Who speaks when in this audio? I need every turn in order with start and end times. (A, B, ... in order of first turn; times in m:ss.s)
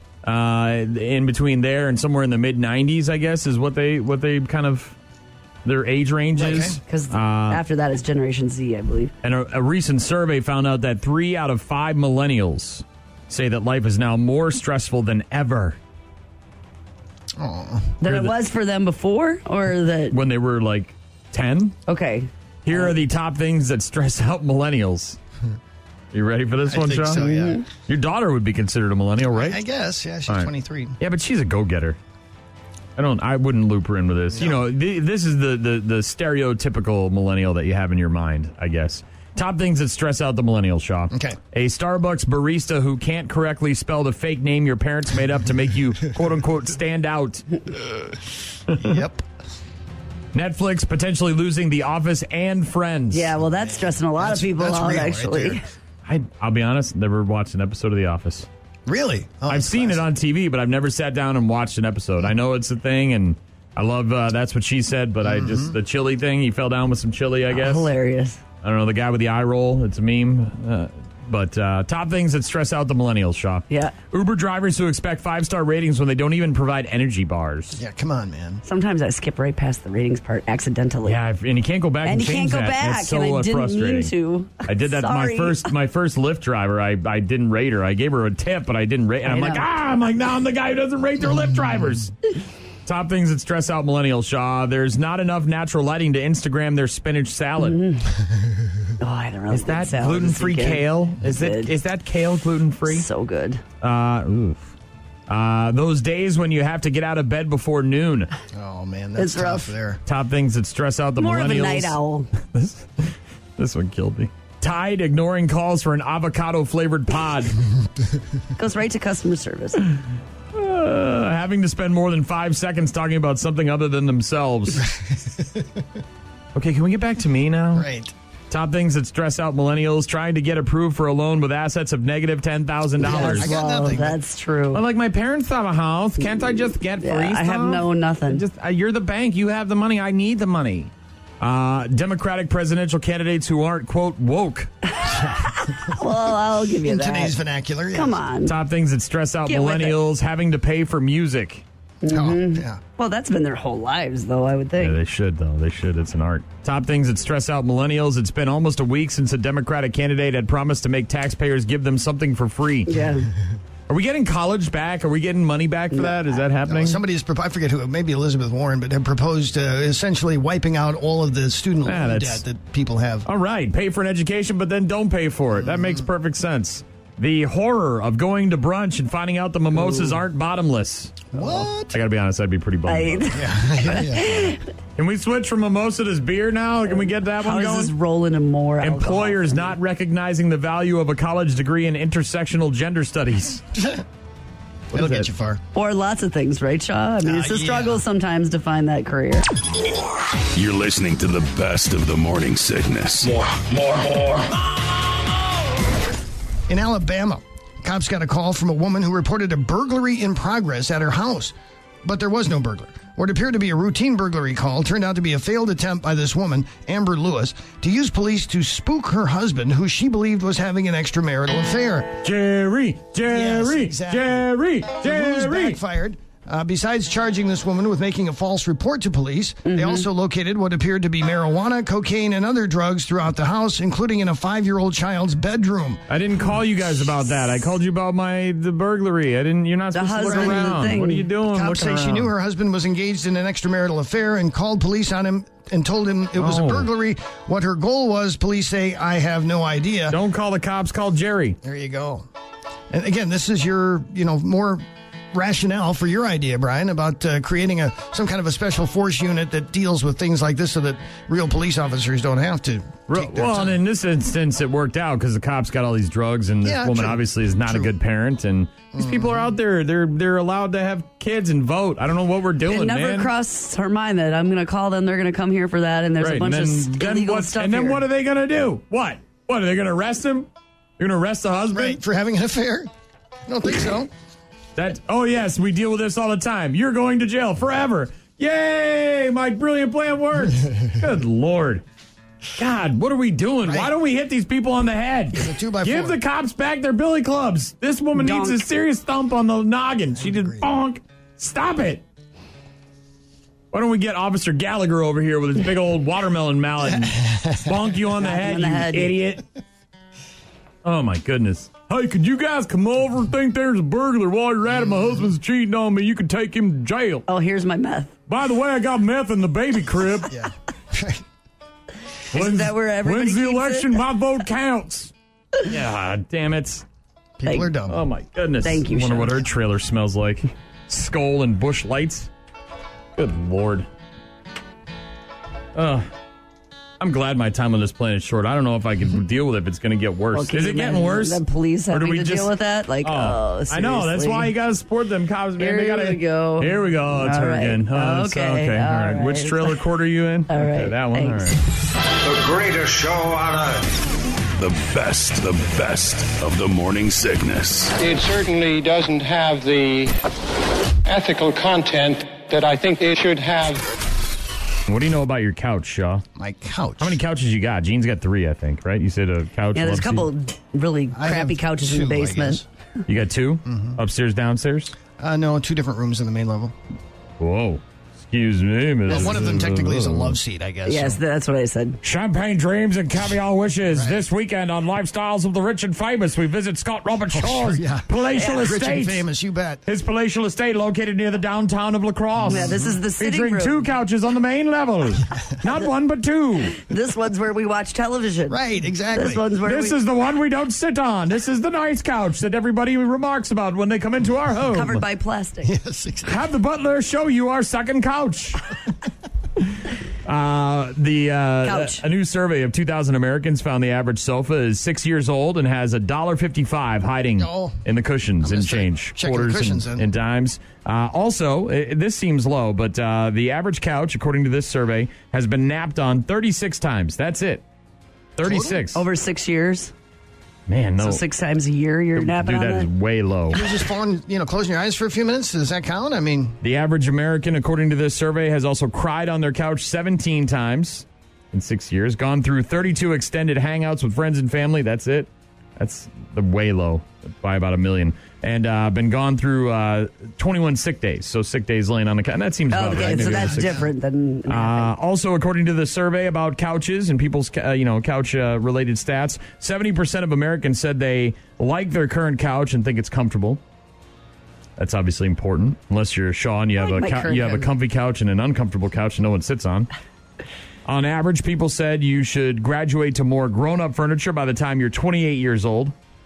0:00.2-0:05.0 A
0:05.6-0:07.6 A
0:06.4-0:06.8 B
0:06.9-0:09.1 C
0:09.2-0:15.8 A
0:17.4-0:17.9 B
0:18.0-0:20.2 C
0:18.0-0:18.3 A
0:20.1-0:21.8 A
0:21.9-0:22.9 C
0:22.6-0:25.2 A
0:26.1-0:27.3 A
0:26.6-0:27.6 B
0:27.3-0:27.6 C
0:27.8-0:29.6 A
0:29.3-0:31.0 B
0:30.3-0:32.0 A
0:33.0-0:47.4 A
0:34.3-0:34.6 B
0:41.1-0:41.4 B
0:48.8-0:49.2 B
0:50.3-0:53.3 A
0:53.1-0:55.6 C
0:53.6-0:55.6 B
0:56.0-0:58.5 A
0:58.8-1:00.0 B
0:59.5-1:07.8 A
1:05.2-1:05.7 B
1:07.5-1:08.4 C
1:08.6-1:17.8 A
1:13.7-1:13.9 C
1:17.7-1:18.6 B
1:18.6-1:21.2 C
1:21.0-1:24.1 A
1:22.0-1:25.7 C
1:24.6-1:32.1 A
1:29.3-1:29.6 C
1:32.8-1:37.8 A
1:37.6-1:38.0 C
1:39.0-1:41.7 C
1:39.5-1:43.0 A
1:42.9-1:43.6 C
1:43.8-1:44.7 A
1:45.3-1:48.3 A
1:48.5-1:50.0 B
1:49.2-1:49.7 C
1:50.0-1:57.6 A
1:51.2-1:52.3 C
1:58.6-1:59.8 C
2:00.5-2:04.9 A
2:05.0-2:05.6 B
2:06.5-2:07.9 A
2:07.7-2:08.1 B
2:08.5-2:13.5 A
2:13.0-2:14.8 C
2:13.0-2:14.2 B
2:14.7-2:24.7 A
2:17.0-2:18.4 C
2:25.0-2:27.3 C
2:26.8-2:28.2 B
2:27.9-2:28.5 C
2:28.4-2:31.6 A
2:29.5-2:30.0 C
2:32.0-2:35.0 C
2:32.1-2:32.8 B
2:34.8-2:43.0 A
2:42.9-2:43.3 C
2:43.9-2:47.0 A
2:45.9-2:46.2 C
2:46.6-2:53.2 B
2:51.8-2:52.4 A
2:53.2-3:01.3 A
2:55.6-2:56.0 B
3:01.3-3:02.0 B
3:01.9-3:03.4 A
3:02.9-3:04.6 C
3:03.3-3:04.6 B
3:05.0-3:07.9 A
3:07.4-3:09.6 C
3:08.8-3:13.6 A
3:13.8-3:14.0 B
3:14.9-3:15.3 A
3:14.9-3:15.6 B
3:15.7-3:19.4 C
3:17.2-3:18.0 B
3:20.5-3:23.3 D
3:23.2-3:24.5 E
3:26.7-3:42.2 B
3:42.2-3:45.8 A
3:43.3-3:56.0 B
3:49.6-3:50.0 C
3:56.1-4:02.3 A
3:59.9-4:01.2 C
4:00.2-4:00.8 B
4:01.5-4:10.2 B
4:06.4-4:06.9 A
4:10.1-4:11.6 A
4:11.6-4:12.3 B
4:12.9-4:23.8 B
4:23.1-4:33.3 A
4:26.6-4:27.9 B
4:28.9-4:29.5 B
4:32.7-4:38.0 C
4:36.2-4:40.5 A
4:41.0-4:42.0 A
4:41.7-4:42.9 B
4:43.5-4:44.1 B
4:44.8-4:51.8 A
4:52.6-5:02.0 A
4:53.6-4:53.9 B
4:55.4-4:56.2 B
4:58.2-4:58.6 C
5:00.2-5:00.7 B
5:03.7-5:09.4 A
5:07.2-5:07.6 B
5:08.2-5:09.2 C
5:10.8-5:17.2 A
5:17.3-5:18.1 C
5:18.3-5:20.3 A
5:20.3-5:21.2 B
5:22.3-5:24.0 C
5:22.3-5:25.1 A
5:25.6-5:26.8 A
5:27.4-5:28.0 B
5:27.4-5:27.7 C
5:27.9-5:32.3 A
5:28.6-5:29.4 C
5:33.2-5:33.9 A
5:35.7-5:36.1 A
5:37.0-5:51.6 A
5:40.3-5:44.5 C
5:45.6-5:49.8 C
5:50.5-5:51.6 C
5:52.2-5:53.8 E
5:54.6-5:57.9 D
5:58.0-6:00.1 F
6:01.0-6:03.9 F
6:04.9-6:06.2 A
6:06.4-6:07.2 B
6:07.0-6:10.3 A
6:09.7-6:12.6 C
6:11.1-6:12.6 B
6:13.1-6:14.9 A
6:13.6-6:14.0 B
6:15.2-6:16.7 B
6:17.4-6:20.4 A
6:19.1-6:21.2 B
6:20.8-6:22.0 C
6:22.0-6:29.2 A
6:23.9-6:24.2 B
6:27.3-6:29.8 B
6:29.8-6:36.8 A
6:32.4-6:32.9 B
6:32.5-6:33.8 C
6:36.9-6:38.6 C
6:38.5-6:39.4 B
6:39.1-6:40.0 C
6:39.6-6:45.0 A
6:44.7-6:45.7 C
6:45.6-6:46.4 B
6:46.3-6:48.6 A
6:50.2-7:07.6 A
6:51.6-6:52.0 C
6:57.4-6:57.8 B
6:58.4-7:00.1 B
7:08.4-7:09.0 A
7:08.4-7:08.8 B
7:08.9-7:09.9 C
7:10.7-7:11.2 A
7:11.0-7:12.9 C
7:12.1-7:13.6 A
7:13.5-7:16.6 B
7:16.6-7:33.8 A
7:32.7-7:34.9 C
7:33.0-7:33.8 B
7:34.5-7:43.6 A
7:44.8-7:49.9 A
7:46.8-7:47.7 C
7:50.8-7:55.9 A